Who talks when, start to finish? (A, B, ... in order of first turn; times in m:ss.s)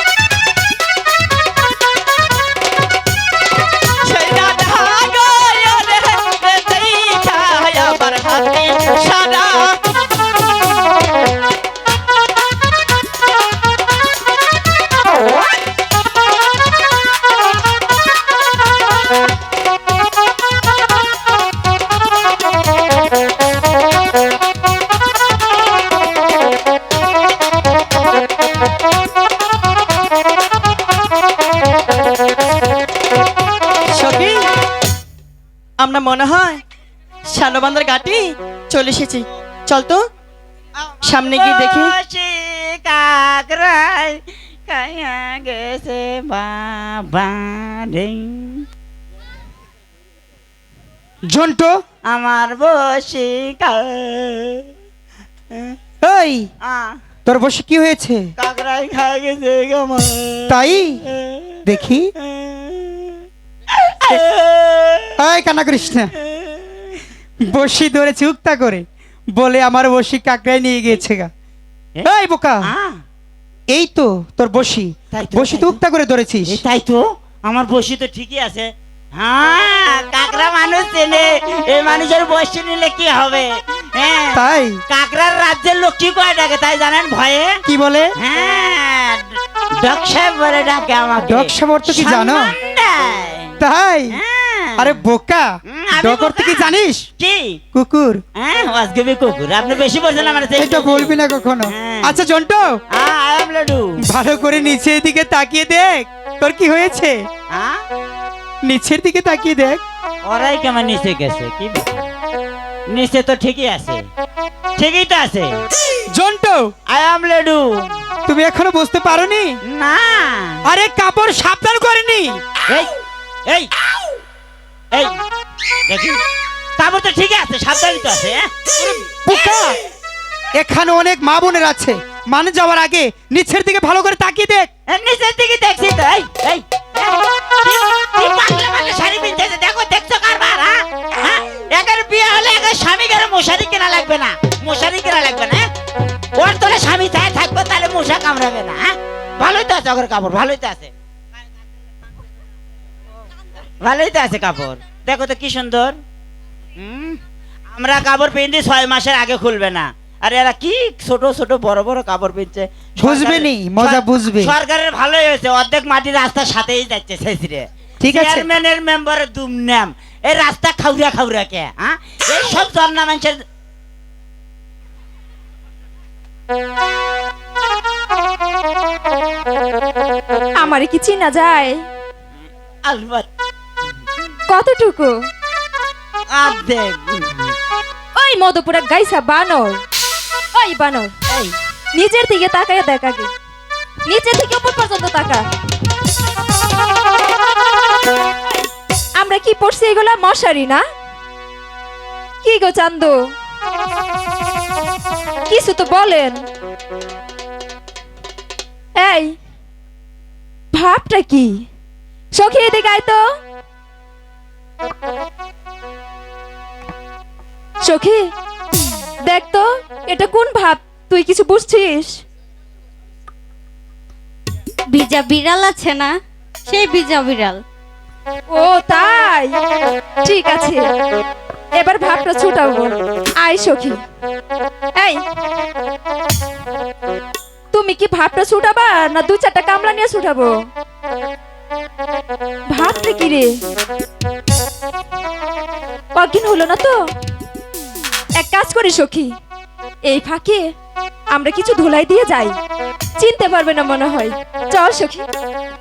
0:04.0-0:09.8 A
0:33.9-0:34.5 A
0:35.8-0:36.6 A
0:37.2-0:40.0 A
0:40.8-0:48.6 B
0:41.0-0:41.9 A
0:51.3-0:51.8 C
0:52.0-0:54.7 B
0:56.0-0:56.5 C
0:56.6-0:56.9 B
0:57.2-0:58.3 C
0:58.4-1:01.6 B
1:00.5-1:01.0 C
1:01.6-1:02.1 C
1:02.2-1:05.2 B
1:05.2-1:06.1 C
1:06.2-1:07.0 B
1:07.4-1:11.3 C
1:12.0-1:12.7 C
1:12.6-1:13.0 B
1:13.7-1:16.6 C
1:15.1-1:15.8 B
1:16.4-1:27.6 B
1:24.3-1:24.8 C
1:27.6-1:28.1 C
1:28.2-1:33.5 B
1:31.2-1:32.5 C
1:33.6-1:34.2 C
1:34.1-1:35.0 B
1:34.8-1:35.4 C
1:35.7-1:37.6 B
1:36.0-1:37.0 C
1:37.7-1:38.2 C
1:38.4-1:41.2 B
1:40.6-1:42.8 C
1:41.7-1:42.2 B
1:42.9-1:44.0 B
1:44.0-1:47.1 C
1:48.7-1:49.8 C
1:50.2-1:52.1 B
1:52.9-1:54.0 B
1:54.8-1:55.6 B
1:56.1-1:56.7 C
1:56.9-1:57.7 B
1:58.3-1:59.6 C
1:59.6-2:00.6 B
2:00.6-2:02.4 C
2:05.9-2:06.2 B
2:06.8-2:09.7 B
2:08.8-2:09.8 C
2:10.5-2:14.7 C
2:14.9-2:25.7 B
2:26.4-2:30.9 B
2:33.8-2:36.0 B
2:36.8-2:37.2 B
2:37.7-2:53.4 B
2:43.0-2:44.5 C
2:48.0-2:48.5 C
3:00.6-3:01.8 D
3:02.8-3:03.3 B
3:04.5-3:05.1 D
3:06.3-3:07.5 B
3:08.2-3:09.8 D
3:10.5-3:11.1 D
3:11.3-3:11.5 B
3:12.0-3:13.3 D
3:14.0-3:15.4 D
3:19.2-3:20.8 D
3:22.4-3:23.1 D
3:25.5-3:26.4 D
3:29.0-3:29.3 D
3:30.7-3:31.6 D
3:32.3-3:33.2 D
3:37.8-3:38.3 D
3:39.2-3:42.2 D
3:44.9-3:46.2 E
3:46.7-3:47.6 E
3:48.5-3:49.5 D
3:50.2-3:50.8 D
3:51.8-3:54.0 D
3:57.7-4:00.5 D
4:02.7-4:03.5 D
4:06.1-4:07.0 D
4:08.4-4:09.3 D
4:10.0-4:10.6 D
4:11.3-4:12.6 D
4:13.2-4:15.2 D